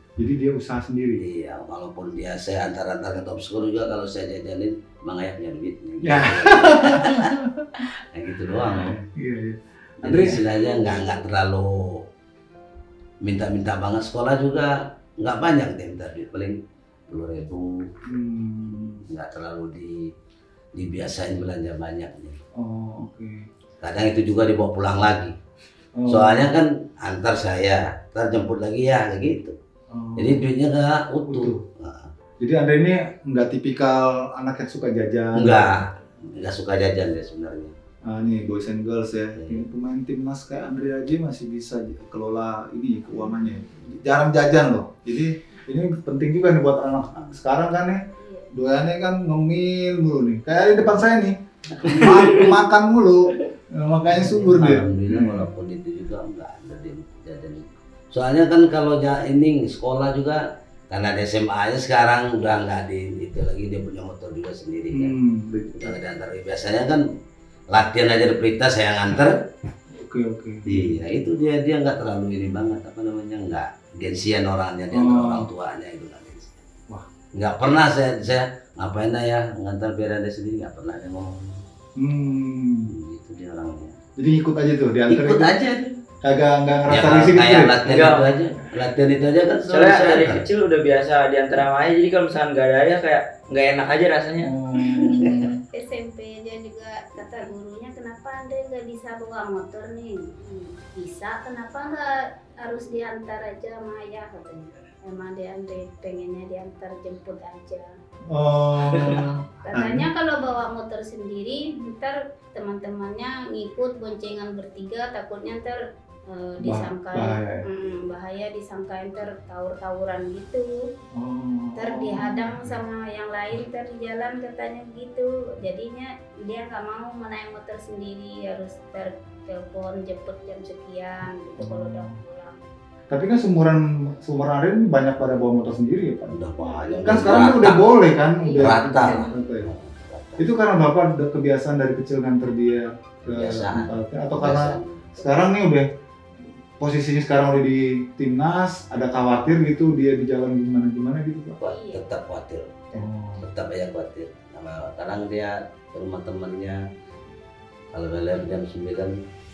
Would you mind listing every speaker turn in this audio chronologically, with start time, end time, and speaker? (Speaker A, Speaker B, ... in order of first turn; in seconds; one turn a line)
Speaker A: 0.2-1.2
Speaker B: 1.1-7.3
Speaker A: 6.0-7.8
Speaker B: 8.1-9.0
Speaker A: 8.7-10.4
Speaker B: 10.0-12.0
Speaker C: 10.5-11.2
Speaker B: 13.2-16.6
Speaker B: 17.1-17.9
Speaker A: 18.1-19.0
Speaker B: 19.1-20.1
Speaker B: 20.7-22.4
Speaker A: 22.6-23.5
Speaker B: 23.8-25.3
Speaker A: 26.0-26.5
Speaker B: 26.1-29.6
Speaker A: 29.9-30.4
Speaker B: 30.2-32.1
Speaker A: 31.2-31.6
Speaker A: 32.4-35.7
Speaker B: 35.4-37.7
Speaker A: 38.0-48.0
Speaker B: 39.4-39.6
Speaker C: 48.2-48.5
Speaker A: 48.5-55.5
Speaker D: 51.8-52.5
Speaker B: 54.1-65.1
Speaker A: 64.9-66.0
Speaker B: 65.7-67.0
Speaker B: 67.7-69.5
Speaker A: 69.9-71.0
Speaker B: 70.6-76.6
Speaker A: 74.9-75.5
Speaker B: 77.3-81.6
Speaker A: 82.0-82.9
Speaker B: 82.9-84.0
Speaker A: 84.2-85.6
Speaker B: 85.1-86.0
Speaker A: 86.2-88.4
Speaker B: 86.9-90.4
Speaker D: 87.8-88.3
Speaker D: 89.7-94.5
Speaker A: 94.4-95.6
Speaker C: 94.9-107.9
Speaker B: 95.0-95.5
Speaker A: 108.3-110.1
Speaker D: 108.9-109.2
Speaker C: 109.6-120.7
Speaker A: 116.6-117.6
Speaker A: 121.2-122.8
Speaker C: 121.8-132.6
Speaker A: 131.6-132.1
Speaker A: 133.1-136.3
Speaker B: 136.3-137.9
Speaker C: 136.6-137.6
Speaker A: 137.0-139.7
Speaker C: 138.3-139.4
Speaker B: 138.6-140.4
Speaker A: 140.4-145.8
Speaker B: 143.2-145.1
Speaker A: 146.8-151.6
Speaker B: 151.6-156.8
Speaker C: 151.6-152.1
Speaker A: 152.9-153.4
Speaker B: 157.9-159.1